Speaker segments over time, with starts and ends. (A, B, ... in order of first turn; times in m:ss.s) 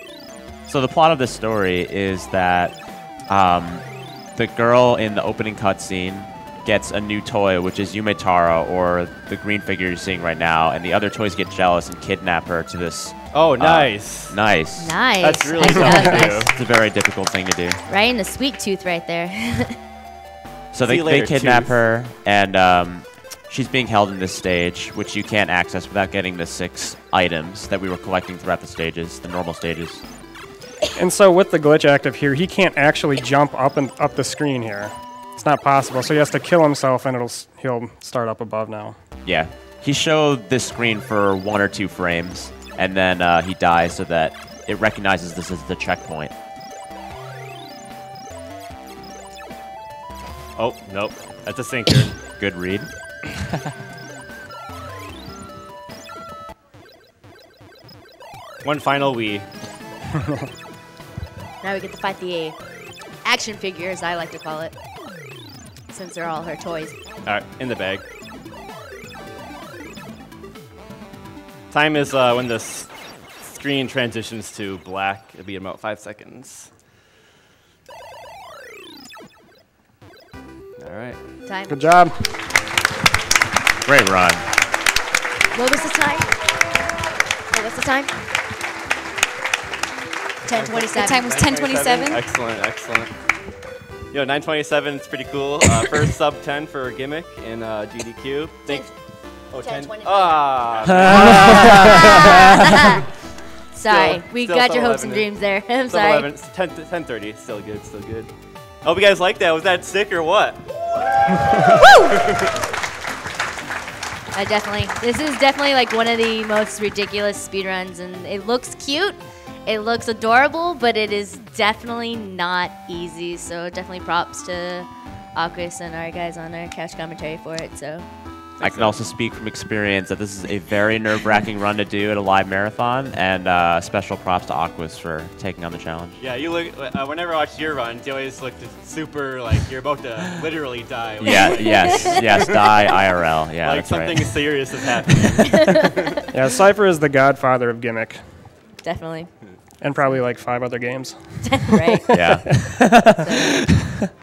0:00.7-0:15.0 A
0:13.3-0:14.4 B
0:14.8-0:16.5 C
0:15.2-0:16.5 B
0:15.9-0:17.8 A
0:17.9-0:19.8 C
0:20.7-0:30.0 A
0:20.8-0:21.8 B
0:31.0-0:39.0 D
0:39.2-0:46.3 A
0:50.6-0:52.1 B
0:52.4-0:52.9 A
0:58.6-0:59.5 B
1:01.6-1:04.8 C
1:05.9-1:07.0 C
1:07.2-1:08.0 B
1:11.7-1:16.7 B
1:20.8-1:21.2 B
1:21.4-1:21.8 C
1:21.7-1:22.2 D
1:23.8-1:24.5 A
1:25.5-1:26.5 C
1:27.5-1:28.2 C
1:30.4-1:32.2 C
1:30.5-1:33.1 B
1:34.1-1:42.2 B
1:38.6-1:38.9 C
1:39.5-1:40.6 C
1:41.0-1:42.0 A
1:41.6-1:46.3 C
1:43.8-1:52.3 B
1:51.6-1:52.2 C
1:54.3-2:08.1 C
2:08.6-2:09.1 B
2:08.6-2:16.2 A
2:16.2-2:22.8 B
2:21.2-2:24.7 A
2:21.2-2:22.2 C
2:23.6-2:25.7 B
2:26.3-2:28.2 D
2:28.8-2:29.4 C
2:29.8-2:32.4 D
2:31.4-2:32.0 C
2:32.1-2:33.1 A
2:33.2-2:33.6 C